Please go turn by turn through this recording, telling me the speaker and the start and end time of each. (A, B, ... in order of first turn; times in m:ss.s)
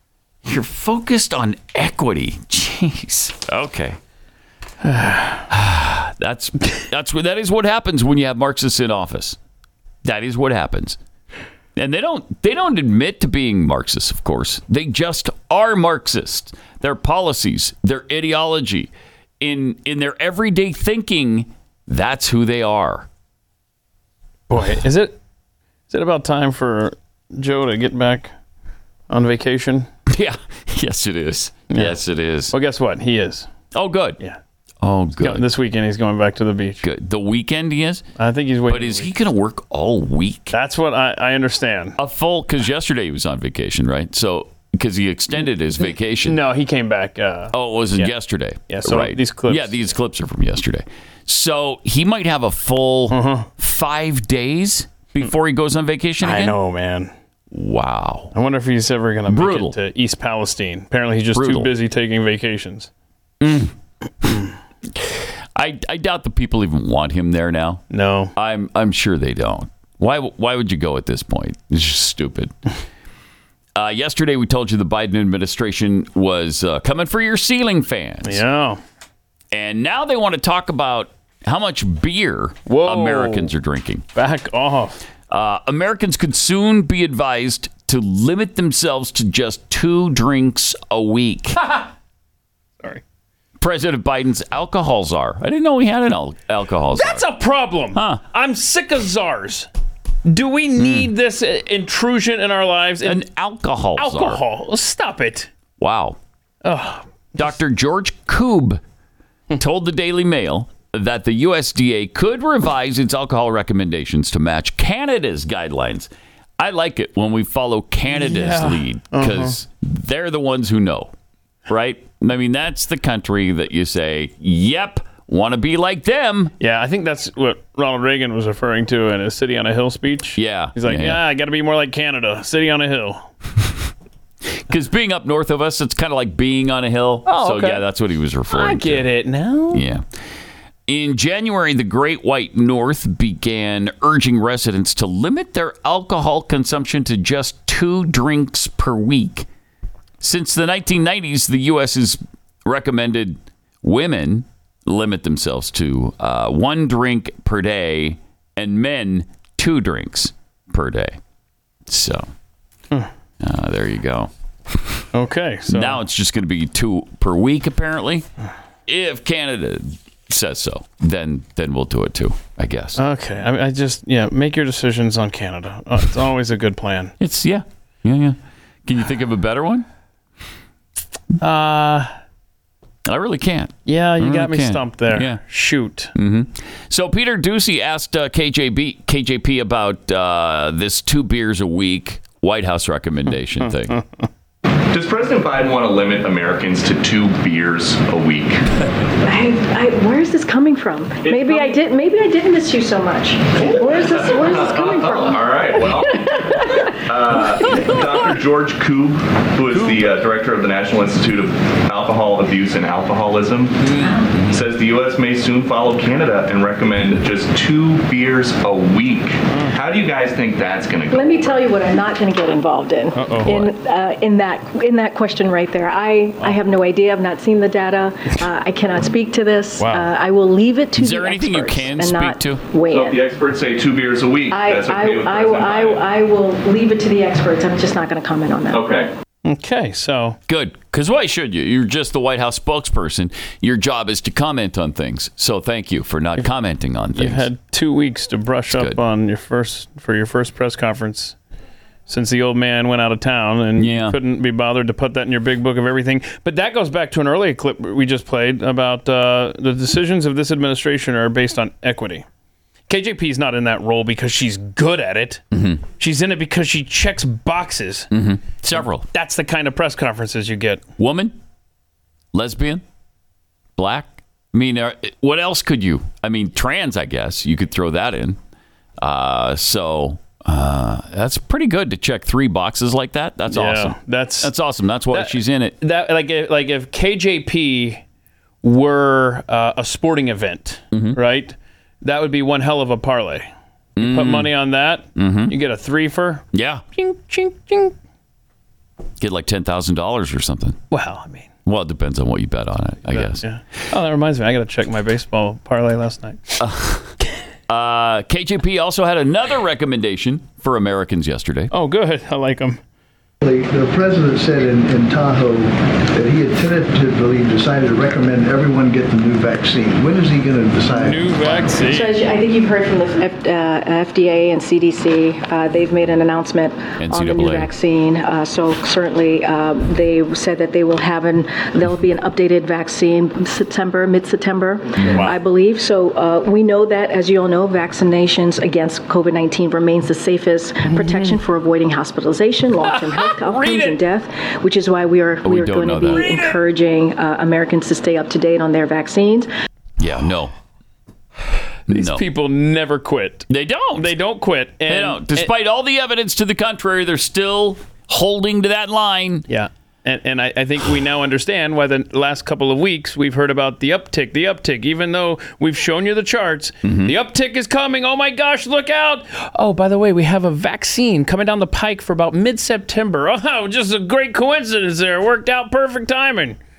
0:00.4-0:04.0 A
0:04.8-0:05.4 B
0:05.5-0:09.4 A
0:10.0-0:11.0 A
0:11.8-0:23.1 A
0:24.5-0:25.2 B
0:25.9-0:28.3 B
0:29.1-0:29.9 B
0:30.1-0:32.5 A
0:31.7-0:32.0 B
0:32.5-0:33.5 B
0:33.7-0:34.2 A
0:34.8-0:35.4 A
0:35.2-0:36.8 B
0:36.8-0:38.0 A
0:38.2-0:39.1 B
0:38.7-0:40.5 A
0:40.5-0:42.0 B
0:42.0-0:46.4 A
0:46.2-0:48.1 B
0:47.5-0:56.6 A
0:48.7-0:49.8 B
0:53.1-0:53.5 B
0:56.2-0:57.1 B
0:57.5-0:58.3 A
0:58.3-1:02.9 B
0:59.3-0:59.8 A
1:01.3-1:01.7 A
1:03.4-1:03.7 A
1:05.6-1:07.8 A
1:07.9-1:08.3 B
1:08.3-1:12.5 A
1:13.8-1:18.4 A
1:18.2-1:18.8 B
1:19.5-1:24.0 A
1:22.6-1:23.5 B
1:24.1-1:25.0 B
1:25.3-1:31.6 A
1:33.6-1:37.2 A
1:36.9-1:39.7 B
1:37.9-1:38.2 A
1:40.2-1:43.2 B
1:40.8-1:41.1 A
1:43.0-1:44.4 A
1:44.0-1:45.5 B
1:45.8-1:46.2 A
1:46.6-1:47.0 B
1:47.4-1:48.8 A
1:49.5-2:01.1 A
1:58.1-1:59.6 B
2:01.7-2:06.5 A
2:06.6-2:13.3 B
2:10.4-2:11.2 A
2:14.6-2:19.0 A
2:17.2-2:17.9 B
2:18.5-2:19.8 B
2:19.7-2:20.0 A
2:20.9-2:29.4 A
2:30.2-2:41.2 A
2:41.9-2:42.3 A
2:43.4-2:44.3 A
2:45.1-2:46.0 B
2:45.7-2:48.2 A
2:48.9-2:53.0 A
2:53.0-2:57.1 B
2:57.2-2:59.8 A
3:01.4-3:02.1 B
3:03.0-3:05.4 A
3:03.8-3:06.1 B
3:06.1-3:14.0 A
3:14.9-3:18.6 C
3:19.2-3:25.8 D
3:21.2-3:21.7 C
3:23.6-3:33.8 C
3:34.0-3:34.6 A
3:34.5-3:41.6 C
3:39.5-3:39.7 B
3:41.1-3:53.2 D
3:43.1-3:43.7 B
3:49.8-3:50.1 B
3:51.0-3:52.6 A
3:52.9-3:56.0 C
3:54.5-3:59.0 D
3:58.7-3:59.1 C
3:59.4-4:00.4 B
4:00.5-4:07.5 A
4:07.1-4:11.3 B
4:08.7-4:09.0 A
4:12.1-4:22.2 B
4:13.8-4:14.2 A
4:22.9-4:28.1 B
4:25.5-4:25.8 A
4:28.1-4:29.0 A
4:29.1-4:30.8 B
4:31.0-4:31.3 A
4:32.3-4:32.8 A
4:33.8-4:38.4 A
4:39.0-4:45.7 A
4:43.5-4:44.5 B
4:45.1-4:48.0 B
4:48.6-4:57.9 B
4:50.9-4:51.2 A
4:54.0-4:54.5 A
4:55.2-4:55.5 A
4:56.5-4:56.8 A
4:59.2-5:00.8 A
5:00.9-5:01.5 B
5:01.6-5:03.5 A
5:03.1-5:06.6 B
5:06.6-5:07.1 A
5:07.7-5:11.7 A
5:11.7-5:12.8 B
5:13.4-5:21.3 E
5:20.9-5:22.2 B
5:21.9-5:49.5 D
5:27.0-5:27.7 A
5:35.0-5:35.4 B
5:43.5-5:43.9 B
5:45.4-5:46.4 A
5:46.2-5:46.5 B
5:50.0-5:50.5 A
5:51.9-5:52.2 A
5:51.9-5:55.5 B
5:53.5-5:54.1 A
5:54.9-5:59.4 A
5:59.5-6:16.6 B
6:06.8-6:07.1 A